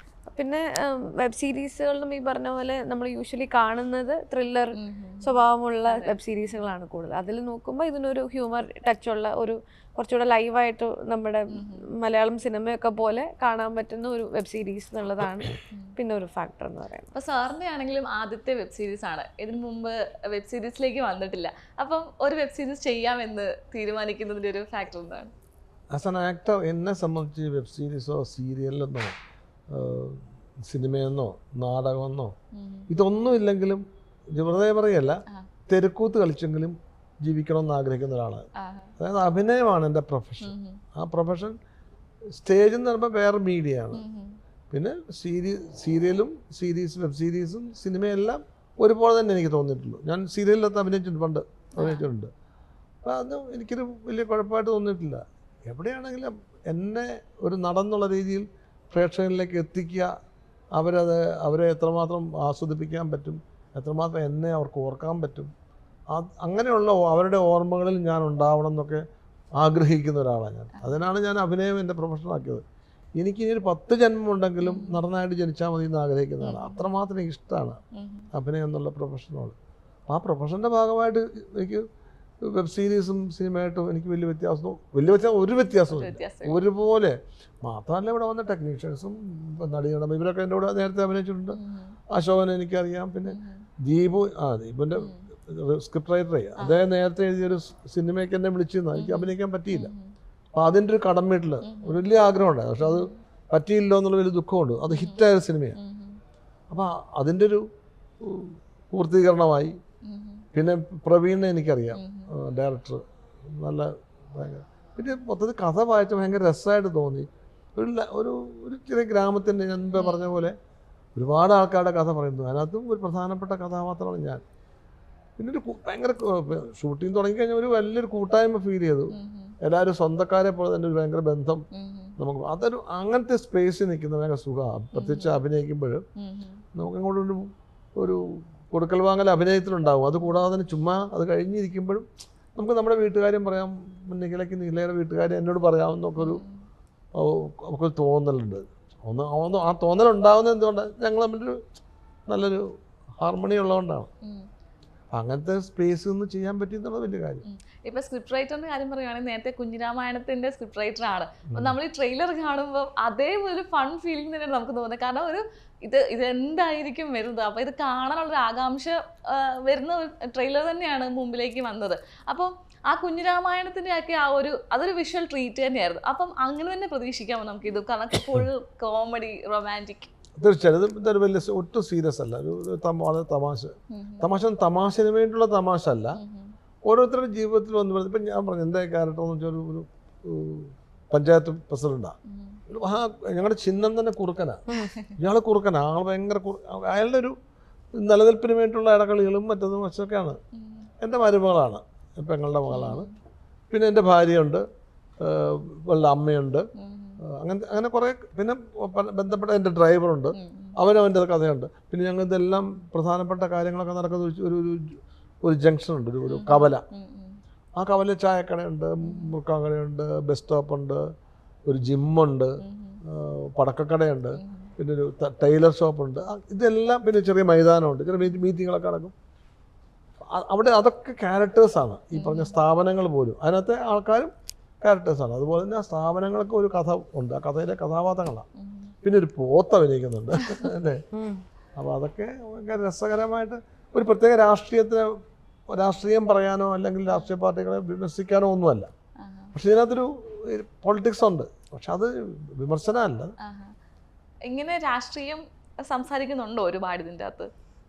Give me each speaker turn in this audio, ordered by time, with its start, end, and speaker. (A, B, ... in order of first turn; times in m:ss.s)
0:00.3-0:17.1 A
0:04.7-0:06.2 B
0:11.5-0:11.9 B
0:17.1-0:25.3 B
0:25.9-0:29.2 C
0:29.7-0:32.3 C
0:32.5-0:32.9 B
0:32.9-0:38.5 C
0:38.6-0:38.9 B
0:39.0-0:41.6 C
0:40.4-0:40.8 B
0:42.3-0:44.0 C
0:43.9-0:44.4 B
0:44.7-0:52.3 C
0:51.8-0:52.0 B
0:53.0-1:00.1 C
1:00.7-1:05.5 C
1:06.1-1:09.0 C
1:09.6-1:12.6 C
1:13.2-1:17.8 C
1:14.6-1:15.0 B
1:16.4-1:16.8 B
1:17.9-1:18.3 B
1:18.3-1:19.5 C
1:20.1-1:21.8 C
1:22.4-1:31.6 C
1:25.9-1:26.6 B
1:31.5-1:32.0 B
1:32.1-1:39.9 C
1:33.3-1:33.6 B
1:38.9-1:40.1 B
1:40.5-1:45.8 C
1:41.6-1:42.0 B
1:42.8-1:43.1 B
1:44.9-1:45.2 B
1:45.8-1:46.2 B
1:46.7-1:47.7 C
1:48.2-1:49.8 C
1:50.0-1:50.4 B
1:50.5-2:00.6 C
1:51.9-1:52.3 B
2:00.0-2:00.4 B
2:01.1-2:04.4 C
2:05.4-2:11.6 C
2:09.1-2:09.5 B
2:11.7-2:12.1 B
2:12.2-2:16.0 C
2:14.9-2:15.4 B
2:16.2-2:16.6 B
2:16.7-2:26.4 C
2:26.2-2:26.6 B
2:27.1-2:31.6 C
2:32.3-2:34.1 C
2:34.2-2:34.5 B
2:35.1-2:37.4 C
2:37.4-3:00.1 B
2:41.5-2:41.8 C
3:00.4-3:06.2 C
3:03.9-3:04.2 B
3:06.1-3:06.5 B
3:06.8-3:12.2 C
3:12.2-3:12.6 B
3:12.7-3:14.6 C
3:15.2-3:17.4 C
3:17.9-3:20.4 C
3:20.5-3:20.9 B
3:21.0-3:23.0 C
3:22.7-3:23.1 B
3:23.7-3:24.6 C
3:25.2-3:26.7 C
3:26.8-3:27.2 B
3:27.2-3:36.8 C
3:30.3-3:30.7 B
3:36.3-3:37.4 B
3:37.8-3:41.0 C
3:39.0-3:39.3 B
3:41.6-3:49.1 C
3:42.6-3:43.0 B
3:44.4-3:44.7 B
3:50.3-3:58.4 C
3:52.1-3:52.6 B
3:58.6-3:58.9 B
3:59.0-4:01.0 C
4:01.1-4:01.4 A
4:01.8-4:05.2 C
4:05.7-4:08.9 C
4:09.2-4:09.5 B
4:09.5-4:13.3 C
4:13.4-4:13.7 B
4:14.4-4:17.5 B